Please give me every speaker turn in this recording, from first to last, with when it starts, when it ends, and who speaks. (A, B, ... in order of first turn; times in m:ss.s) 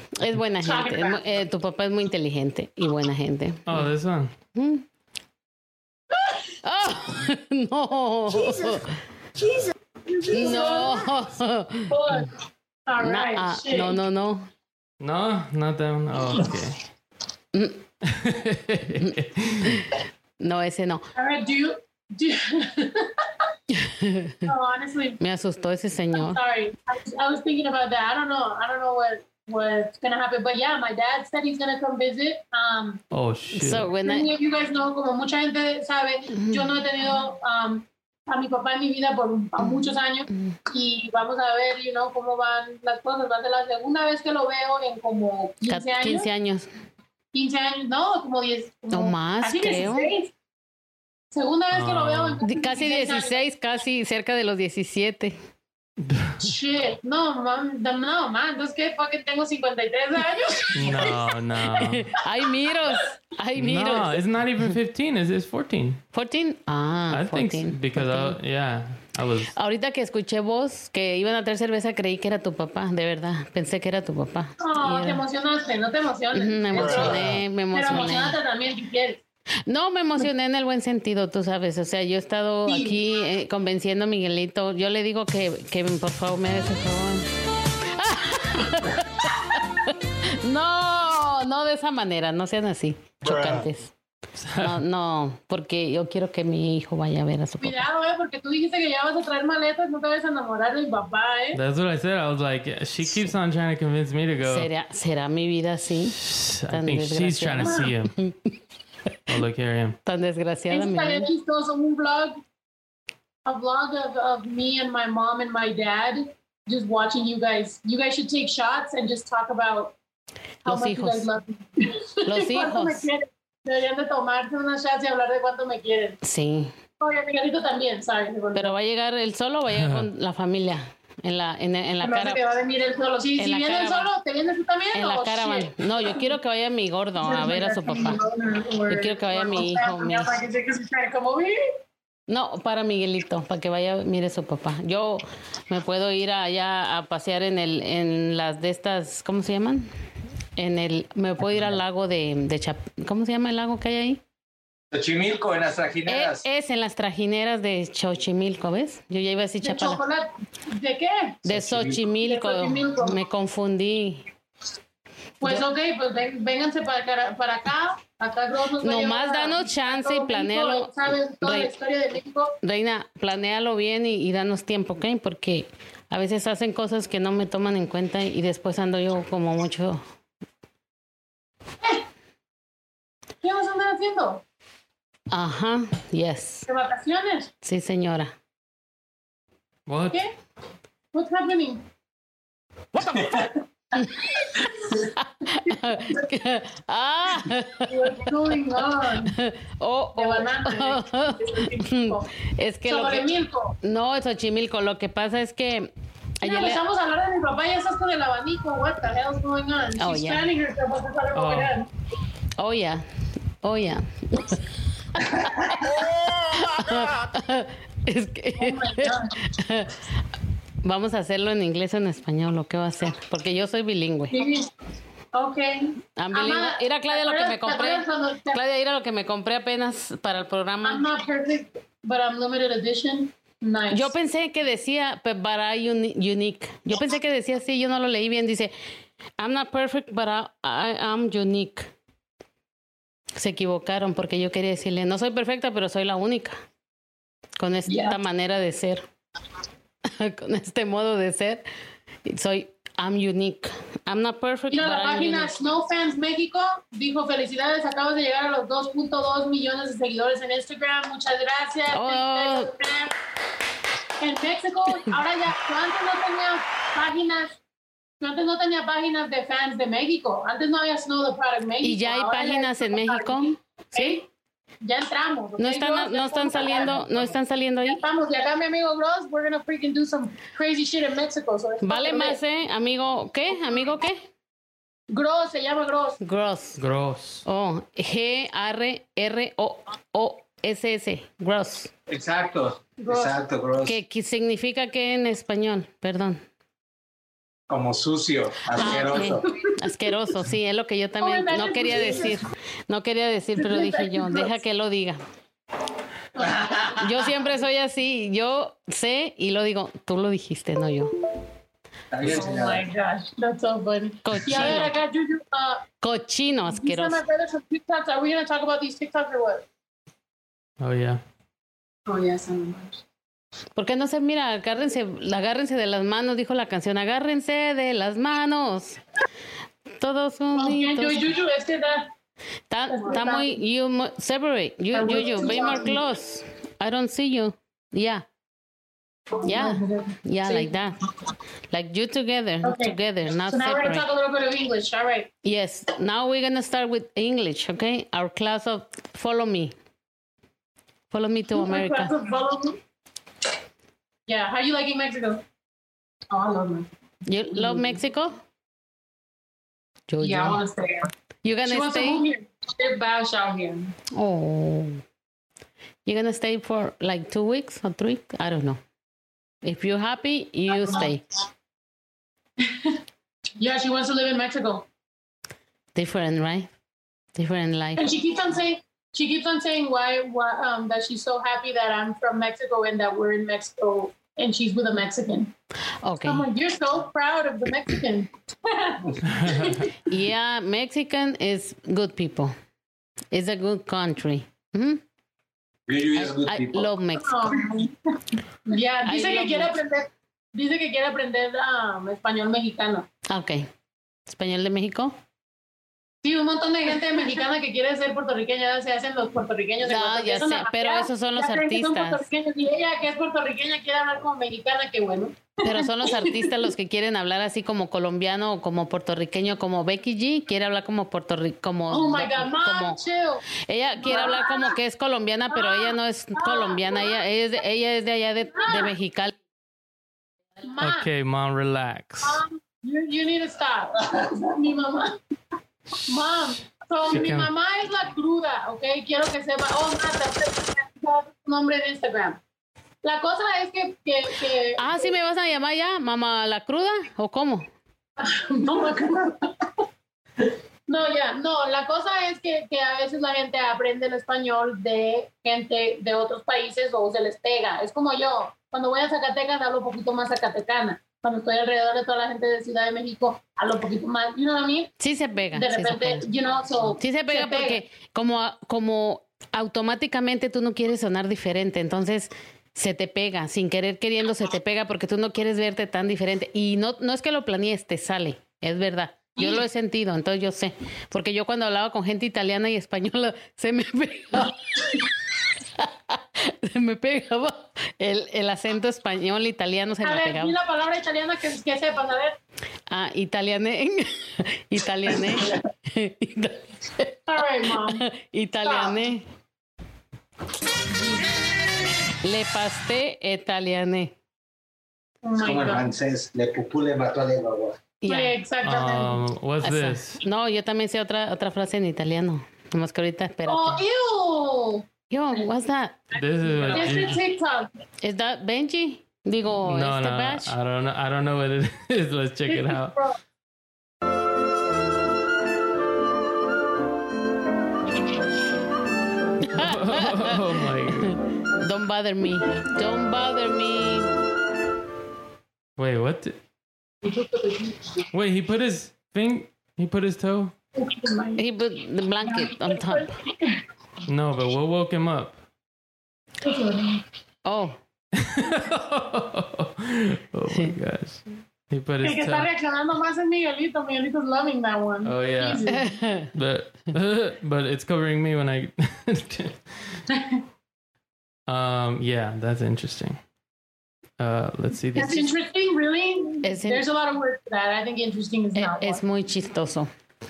0:00.2-0:03.9 A
0:00.6-0:01.2 B
0:03.7-0:04.3 C
0:04.5-0:04.8 A
0:06.6-0:09.0 A
0:10.1-0:11.1 B
0:10.3-0:12.2 A
0:11.9-0:12.3 B
0:12.9-0:14.0 B
0:13.0-0:14.5 A
0:15.0-0:16.8 C
0:17.5-0:17.8 A
0:18.0-0:19.8 C
0:19.0-0:21.0 A
0:21.2-0:23.1 B
0:23.7-0:24.5 A
0:24.5-0:25.2 B
0:25.2-0:26.4 A
0:26.2-0:33.0 B
0:33.1-0:33.9 C
0:33.5-0:34.3 A
0:34.0-0:46.3 B
0:36.3-0:36.8 A
0:39.6-0:40.6 A
0:45.7-0:46.7 A
0:47.3-0:50.3 B
0:48.9-0:50.1 A
0:51.3-0:53.4 B
0:51.7-0:52.4 C
0:52.4-0:55.4 A
0:56.0-0:56.4 C
0:56.4-1:01.1 B
1:00.7-1:02.0 C
1:01.8-1:04.2 A
1:03.6-1:06.0 C
1:06.1-1:08.4 A
1:07.1-1:09.5 C
1:09.5-1:15.2 A
1:14.6-1:19.2 B
1:16.3-1:18.4 A
1:16.8-1:17.4 D
1:19.6-1:27.3 A
1:22.7-1:23.0 B
1:27.9-1:33.9 A
1:34.4-1:34.8 C
1:34.6-1:37.8 A
1:37.6-1:41.6 B
1:41.5-1:44.7 C
1:44.4-1:46.2 A
1:46.2-1:48.1 C
1:46.7-1:48.4 A
1:47.6-1:47.9 B
1:49.3-1:50.0 C
1:50.0-1:51.3 A
1:50.7-1:52.4 B
1:53.4-1:59.9 B
2:00.6-2:01.2 A
2:00.6-2:06.2 B
2:02.2-2:03.1 A
2:06.2-2:06.7 A
2:07.0-2:08.8 B
2:08.5-2:12.4 A
2:09.7-2:10.1 C
2:12.0-2:16.3 B
2:13.4-2:14.1 A
2:14.9-2:18.2 A
2:17.2-2:21.6 B
2:18.9-2:20.3 A
2:22.3-2:29.9 A
2:30.6-2:34.2 A
2:34.9-2:36.4 D
2:36.0-2:40.0 A
2:39.6-2:41.4 B
2:41.4-2:44.3 A
2:41.5-2:42.0 D
2:42.2-2:43.2 B
2:45.4-2:45.6 A
2:45.4-2:52.6 B
2:48.8-2:51.7 A
2:52.6-3:00.0 A
3:03.4-3:04.4 B
3:05.3-3:06.6 A
3:06.7-3:07.5 B
3:07.6-3:08.3 A
3:09.9-3:10.2 C
3:11.1-3:11.8 B
3:13.0-3:13.4 D
3:14.0-3:14.3 A
3:15.0-3:26.8 A
3:17.9-3:19.3 B
3:20.2-3:22.3 B
3:22.9-3:23.8 B
3:26.4-3:31.9 B
3:30.0-3:30.5 A
3:31.3-3:31.7 C
3:32.6-3:33.0 A
3:33.6-3:40.1 A
3:38.6-3:39.3 B
3:40.8-3:44.5 A
3:44.3-3:44.7 B
3:45.3-3:48.6 B
3:46.2-3:51.1 A
3:50.8-3:54.1 B
3:53.9-3:58.7 A
3:59.4-4:01.9 A
4:03.3-4:06.6 A
4:07.6-4:09.0 A
4:07.9-4:08.2 B
4:10.0-4:11.6 A
4:12.2-4:15.5 A
4:14.7-4:23.1 B
4:21.9-4:22.7 A
4:24.2-4:27.6 B
4:28.2-4:34.2 B
4:31.8-4:34.2 A
4:34.8-4:37.0 B
4:35.6-4:38.0 A
4:37.8-4:42.4 B
4:41.8-4:44.3 A
4:45.1-4:46.2 B
4:46.2-4:46.8 A
4:46.8-4:47.4 C
4:47.4-4:51.9 A
4:52.1-4:54.0 D
4:53.0-4:53.4 B
4:53.8-4:56.4 A
4:57.7-4:59.4 D
4:58.8-5:05.2 A
4:58.8-4:59.7 B
5:01.2-5:02.4 B
5:03.6-5:04.6 B
5:06.4-5:07.0 B
5:06.9-5:11.1 A
5:12.1-5:12.8 D
5:12.3-5:13.1 E
5:12.3-5:15.8 B
5:14.2-5:14.9 A
5:16.0-5:17.2 A
5:16.7-5:19.6 B
5:20.8-5:21.2 C
5:22.1-5:23.0 B
5:23.7-5:29.0 A
5:29.9-5:31.3 A
5:30.5-5:32.1 B
5:32.7-5:38.2 A
5:32.9-5:33.6 B
5:34.9-5:36.0 B
5:39.4-5:40.7 B
5:39.4-5:41.0 A
5:41.7-5:44.1 A
5:42.6-5:45.3 B
5:45.4-5:49.7 A
5:51.1-5:52.1 A
5:51.5-5:52.8 B
5:54.3-5:55.4 B
5:56.3-5:56.8 E
5:57.2-5:58.4 A
6:00.1-6:00.6 A
6:00.2-6:01.1 E
6:01.4-6:02.2 A
6:01.6-6:02.5 B
6:02.6-6:03.9 E
6:04.1-6:05.0 A
6:06.0-6:08.8 A
6:09.6-6:11.2 A
6:13.6-6:14.8 B
6:15.9-6:16.7 A
6:17.3-6:18.1 A
6:18.0-6:25.5 B
6:26.0-6:26.5 A
6:26.2-6:29.9 B
6:29.3-6:29.8 C
6:30.0-6:32.5 A
6:33.3-6:35.0 A
6:35.9-6:36.9 D
6:36.2-6:37.6 A
6:37.2-6:38.0 B
6:38.7-6:43.1 B
6:39.0-6:39.7 A
6:43.3-6:43.7 A
6:44.3-6:45.2 A
6:46.2-6:56.6 B
6:49.8-6:52.2 A
6:55.6-7:03.0 A
7:01.9-7:03.4 B
7:03.6-7:09.4 A
7:04.0-7:04.7 B
7:05.5-7:07.2 B
7:08.5-7:08.9 B
7:10.6-7:11.1 B
7:10.8-7:12.4 C
7:12.2-7:15.2 B
7:16.0-7:22.4 B
7:17.1-7:17.5 C
7:23.0-7:25.2 B
7:24.8-7:27.7 A
7:28.2-7:29.6 B
7:30.9-7:44.9 B
7:45.0-7:46.2 A
7:45.5-7:47.8 B
7:46.9-8:05.0 A
7:59.4-7:59.6 B
8:05.8-8:10.6 A
8:10.0-8:12.4 B
8:12.9-8:19.3 A
8:17.3-8:18.0 B
8:18.6-8:19.0 B
8:20.9-8:21.3 B
8:22.2-8:24.1 A
8:25.2-8:25.9 B
8:25.4-8:27.8 D
8:28.0-8:28.4 A
8:28.1-8:29.2 B
8:28.6-8:30.2 C
8:29.6-8:33.8 A
8:33.4-8:34.8 B
8:35.1-8:36.0 A
8:36.1-8:37.2 C
8:36.7-8:37.7 B
8:38.0-8:40.5 A
8:39.6-8:42.9 C
8:42.5-8:43.2 B
8:49.4-8:54.2 A
8:49.5-8:51.2 C
8:55.8-8:56.4 C
8:57.0-8:57.8 E
8:58.1-9:00.5 C
9:00.8-9:01.4 B
9:01.4-9:03.1 A
9:02.2-9:03.6 B
9:04.1-9:05.4 C
9:06.4-9:07.0 B
9:07.4-9:07.8 A
9:08.1-9:12.5 C
9:12.0-9:15.9 B
9:15.0-9:15.7 C
9:15.7-9:16.3 A
9:16.3-9:19.6 C
9:21.5-9:23.2 C
9:24.2-9:25.3 C
9:24.9-9:29.0 B
9:26.4-9:26.8 A
9:28.5-9:29.9 A